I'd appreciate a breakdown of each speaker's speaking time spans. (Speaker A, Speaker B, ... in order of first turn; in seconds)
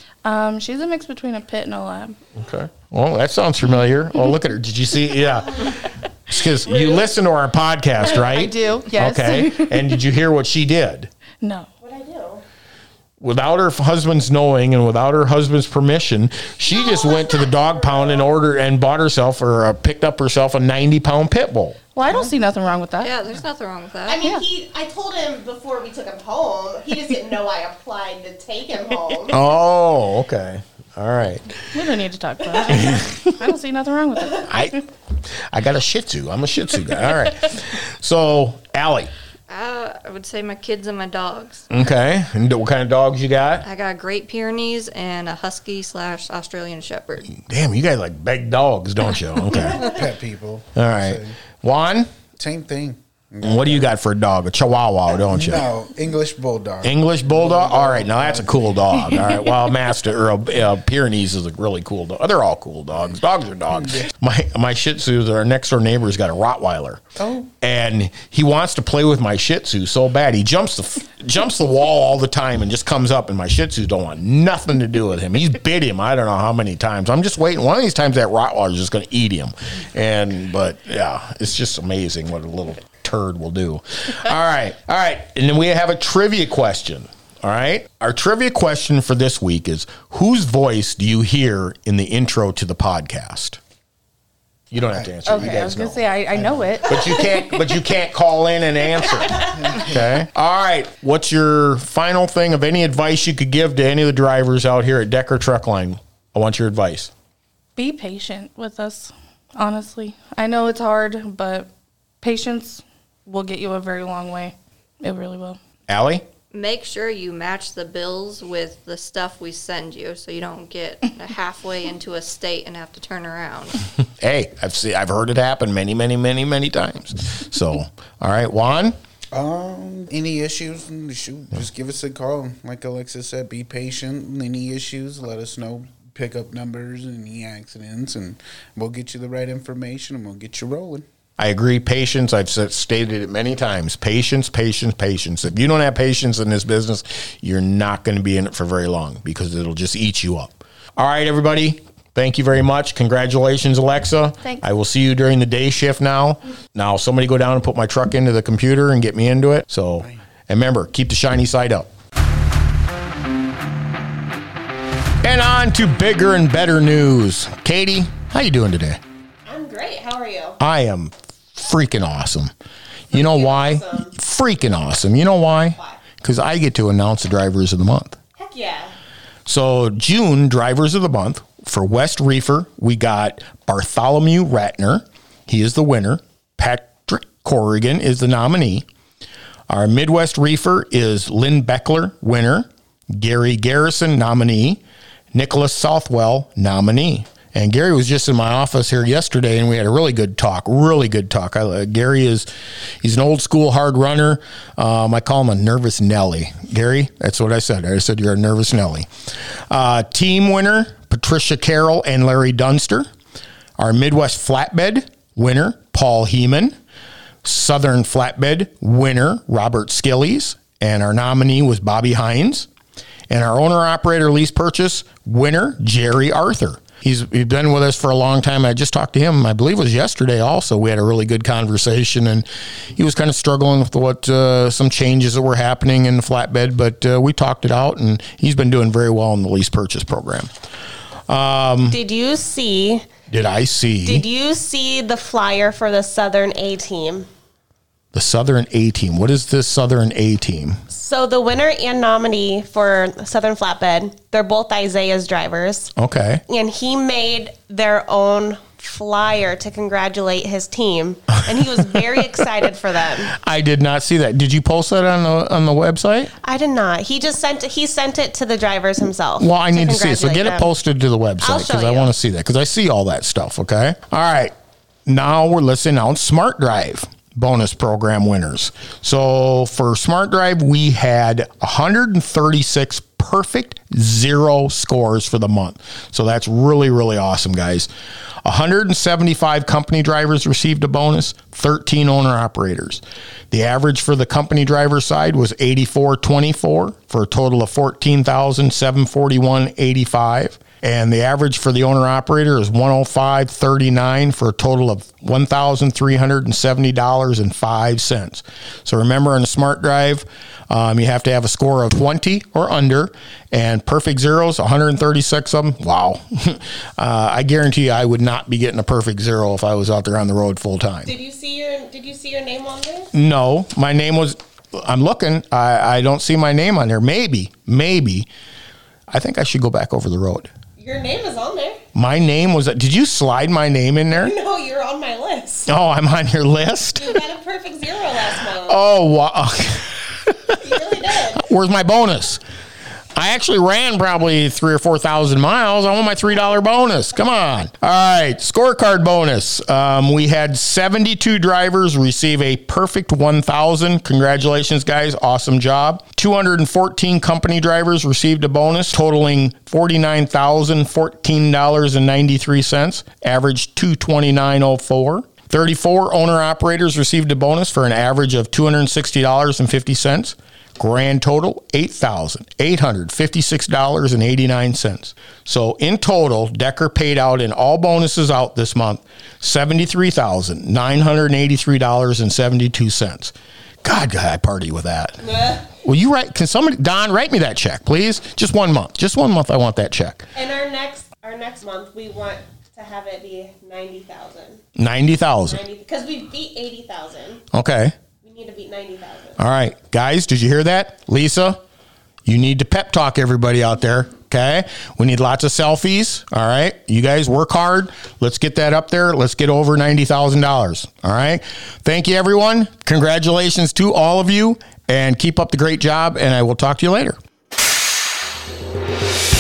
Speaker A: 0.2-2.1, 8.0-10.0, 11.4-11.7, 21.9-23.1, 31.7-34.8, 95.2-97.8, 107.8-111.7, 112.2-115.6
Speaker B: 2.4-11.1, 13.2-21.8, 29.3-31.6, 32.7-33.3, 34.4-34.8, 35.5-39.1, 41.7-43.6, 47.3-49.9, 50.7-52.1, 53.4-55.6, 56.8-67.0, 67.6-93.6, 94.7-96.0, 96.8-107.1, 115.9-116.2, 124.2-128.9, 141.4-161.9, 165.2-169.0, 170.6-172.5, 173.1-178.2, 179.4-188.9, 189.7-194.8, 195.3-202.5, 203.0-209.1, 209.7-213.1, 213.8-216.8, 217.4-222.7, 223.3-240.5, 241.3-242.0, 243.3-244.2, 248.1-250.8, 256.0-256.4, 263.3-266.3, 269.4-274.5, 275.1-287.9, 288.4-321.1, 323.1-328.3, 329.1-330.5, 331.9-334.4, 335.6-337.2, 338.6-340.4, 341.3-342.4, 343.1-385.2, 385.8-390.3, 394.8-395.6, 397.5-397.9, 399.4-401.6, 402.2-417.2
Speaker C: 6.7-7.0, 11.8-12.4, 16.7-18.3, 24.1-29.4, 99.2-99.5, 169.4-170.6, 173.1-174.1, 178.4-178.9, 241.9-243.1, 244.0-247.3, 250.9-255.9, 256.5-263.3, 266.4-270.7, 271.4-272.1, 321.1-323.1, 330.8-331.8, 334.1-335.7, 337.0-338.8, 340.6-341.5, 385.2-385.6, 390.4-394.6, 395.5-397.4, 398.2-399.4
Speaker D: 23.0-24.3, 39.5-41.7, 43.6-47.3, 116.5-123.8
Speaker E: 49.7-51.4, 52.3-53.9, 55.2-59.3, 63.7-64.1, 67.2-67.5, 94.9-95.8, 96.3-96.9, 99.5-99.9, 129.3-141.1